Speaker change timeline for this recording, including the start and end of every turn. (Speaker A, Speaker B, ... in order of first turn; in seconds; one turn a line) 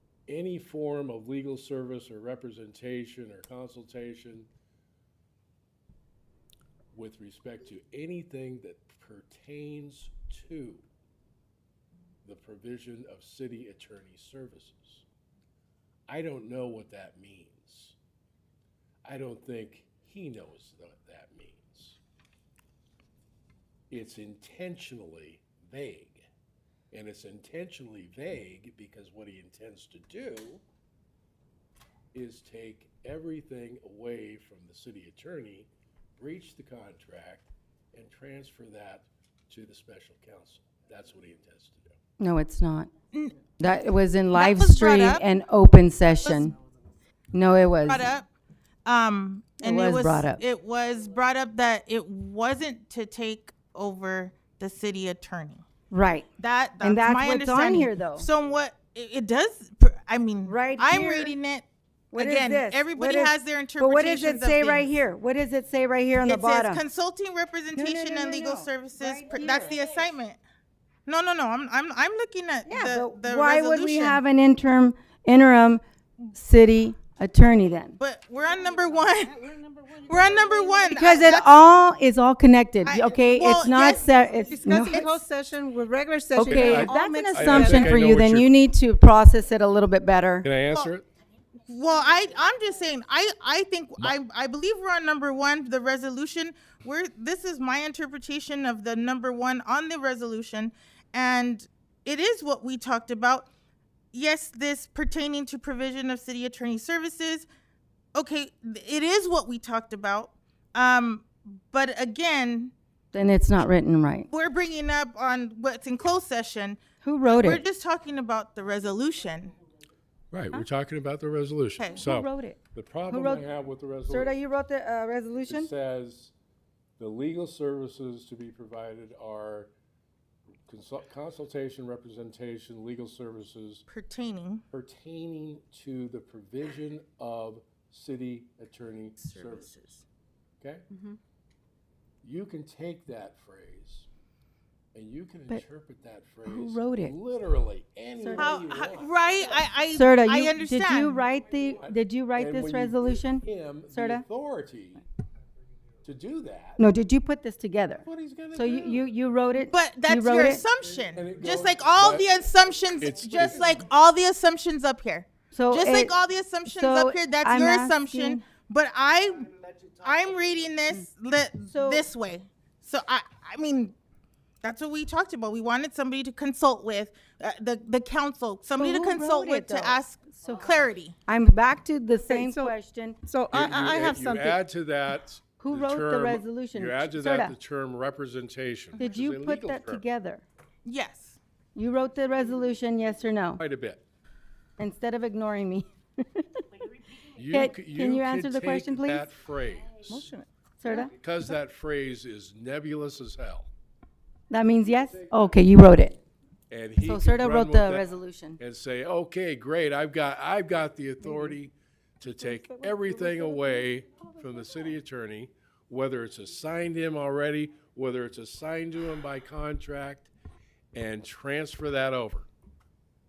Speaker A: 0.3-4.5
Speaker A: 6.9-10.8
Speaker A: 12.2-15.0
Speaker A: 16.1-17.9
Speaker A: 19.0-22.0
Speaker A: 23.9-26.2
Speaker A: 26.9-30.6
Speaker A: 32.1-42.0
Speaker B: 42.2-42.9
Speaker B: 43.6-46.5
Speaker C: 44.3-45.2
Speaker C: 46.2-46.5
Speaker B: 47.3-48.1
Speaker C: 47.9-48.3
Speaker C: 48.9-55.6
Speaker B: 49.6-50.4
Speaker B: 55.9-56.3
Speaker C: 56.4-64.8
Speaker B: 56.8-58.3
Speaker B: 60.5-61.3
Speaker B: 62.1-66.8
Speaker C: 66.2-70.4
Speaker B: 67.7-69.8
Speaker C: 71.1-74.2
Speaker B: 72.7-75.8
Speaker B: 76.3-78.0
Speaker C: 78.0-79.4
Speaker D: 79.4-80.0
Speaker C: 80.0-81.4
Speaker B: 80.8-85.1
Speaker C: 82.8-84.2
Speaker D: 84.5-87.9
Speaker C: 84.9-85.2
Speaker B: 86.3-90.5
Speaker A: 86.4-88.5
Speaker A: 90.4-91.0
Speaker C: 91.7-103.5
Speaker C: 104.1-107.5
Speaker C: 108.1-112.7
Speaker B: 113.1-114.3
Speaker C: 114.3-119.5
Speaker B: 117.0-117.6
Speaker A: 120.3-124.3
Speaker C: 121.8-122.0
Speaker B: 122.0-123.5
Speaker B: 124.1-125.7
Speaker A: 125.5-126.3
Speaker A: 127.0-129.7
Speaker A: 130.7-133.8
Speaker C: 133.9-134.6
Speaker A: 134.7-139.9
Speaker A: 142.2-144.1
Speaker A: 144.9-149.5
Speaker B: 146.4-147.1
Speaker B: 148.2-148.5
Speaker C: 148.3-151.2
Speaker B: 149.9-154.2
Speaker A: 151.7-155.0
Speaker A: 156.0-156.8
Speaker B: 156.8-160.6
Speaker A: 158.0-159.0
Speaker C: 159.7-173.9
Speaker A: 161.1-162.3
Speaker A: 163.0-163.8
Speaker B: 165.5-166.1
Speaker B: 166.7-168.4
Speaker B: 171.7-172.0
Speaker C: 174.6-181.2
Speaker B: 178.7-180.7
Speaker B: 181.3-183.2
Speaker D: 182.3-182.7
Speaker D: 183.3-184.5
Speaker A: 183.5-190.0
Speaker B: 185.6-187.5
Speaker B: 189.0-190.4
Speaker C: 190.8-191.4
Speaker B: 191.7-193.6
Speaker A: 193.6-194.0
Speaker B: 194.8-196.6
Speaker A: 197.3-200.3
Speaker B: 197.5-199.3
Speaker D: 200.1-200.5
Speaker B: 200.8-201.1
Speaker A: 201.2-203.7
Speaker B: 204.5-206.2
Speaker A: 206.7-208.0
Speaker B: 207.0-208.6
Speaker A: 208.6-220.3
Speaker D: 212.5-213.7
Speaker A: 220.9-222.5